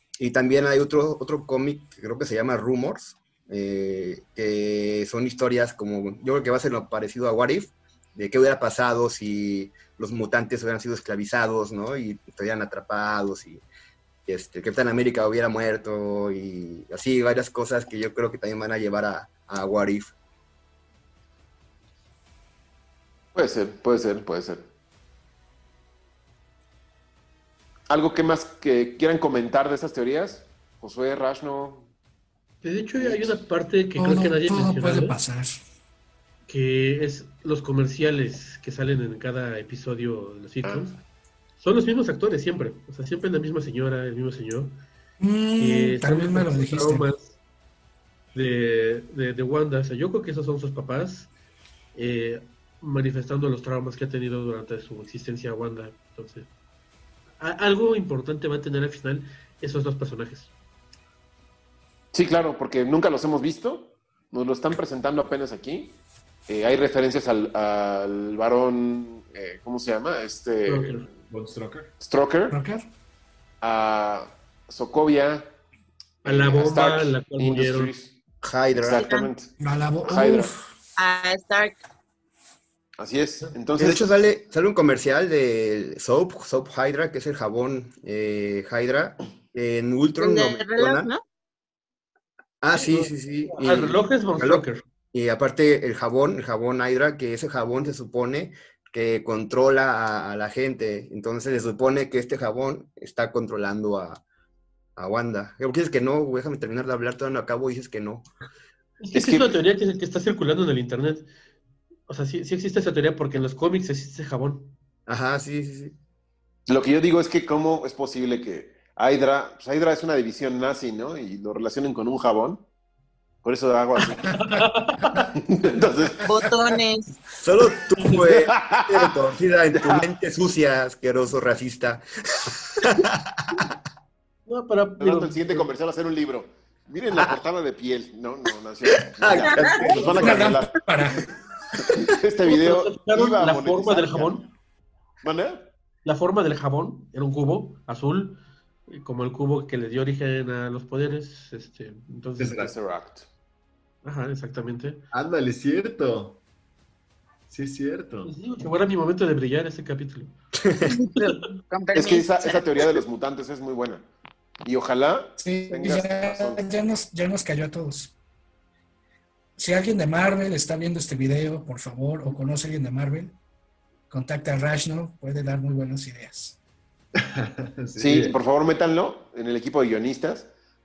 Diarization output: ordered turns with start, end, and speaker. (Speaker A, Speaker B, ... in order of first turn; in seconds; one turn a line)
Speaker A: 0.2-13.6
Speaker A: 14.3-20.1
Speaker B: 23.3-24.7
Speaker B: 27.9-31.9
Speaker C: 32.6-35.2
Speaker B: 33.0-33.4
Speaker D: 34.0-35.6
Speaker C: 36.5-40.9
Speaker B: 40.6-40.9
Speaker C: 41.6-44.8
Speaker D: 45.2-47.1
Speaker C: 45.6-47.4
Speaker C: 48.3-51.3
Speaker C: 51.9-56.5
Speaker C: 57.4-60.5
Speaker B: 62.1-71.0
Speaker C: 70.7-71.0
Speaker E: 71.2-71.9
Speaker B: 72.0-72.6
Speaker D: 72.5-72.8
Speaker B: 73.6-75.5
Speaker B: 76.2-78.2
Speaker C: 76.2-77.9
Speaker A: 78.4-79.2
Speaker B: 78.7-79.5
Speaker D: 79.6-80.6
Speaker B: 80.0-80.5
Speaker F: 81.0-81.8
Speaker B: 83.0-84.1
Speaker A: 83.8-91.1
Speaker F: 90.2-91.2
Speaker A: 92.6-104.2
Speaker C: 92.7-94.8
Speaker A: 105.0-108.2
Speaker C: 109.0-111.3
Speaker B: 109.1-109.5
Speaker C: 112.1-114.7
Speaker A: 115.1-115.9
Speaker B: 116.7-122.6
Speaker B: 123.4-124.5
Speaker C: 124.3-125.2
Speaker B: 125.3-126.3
Speaker F: 126.2-127.1
Speaker A: 127.3-133.5
Speaker B: 128.1-130.0
Speaker C: 134.5-135.6
Speaker B: 135.0-140.8
Speaker A: 137.1-137.4
Speaker A: 139.0-140.1
Speaker F: 139.4-140.3
Speaker D: 140.2-141.3
Speaker B: 141.8-144.5
Speaker C: 142.4-144.4
Speaker B: 145.2-145.7
Speaker C: 146.0-152.7
Speaker E: 152.4-152.7
Speaker B: 152.6-153.3
Speaker C: 154.0-155.0
Speaker E: 155.1-156.4
Speaker E: 157.5-158.3
Speaker C: 158.2-160.3
Speaker A: 160.6-160.9
Speaker F: 160.8-162.9
Speaker B: 161.9-164.0
Speaker B: 164.6-166.7
Speaker D: 165.4-168.1
Speaker D: 169.6-173.4
Speaker D: 174.1-176.6
Speaker E: 177.2-178.3
Speaker B: 178.0-180.5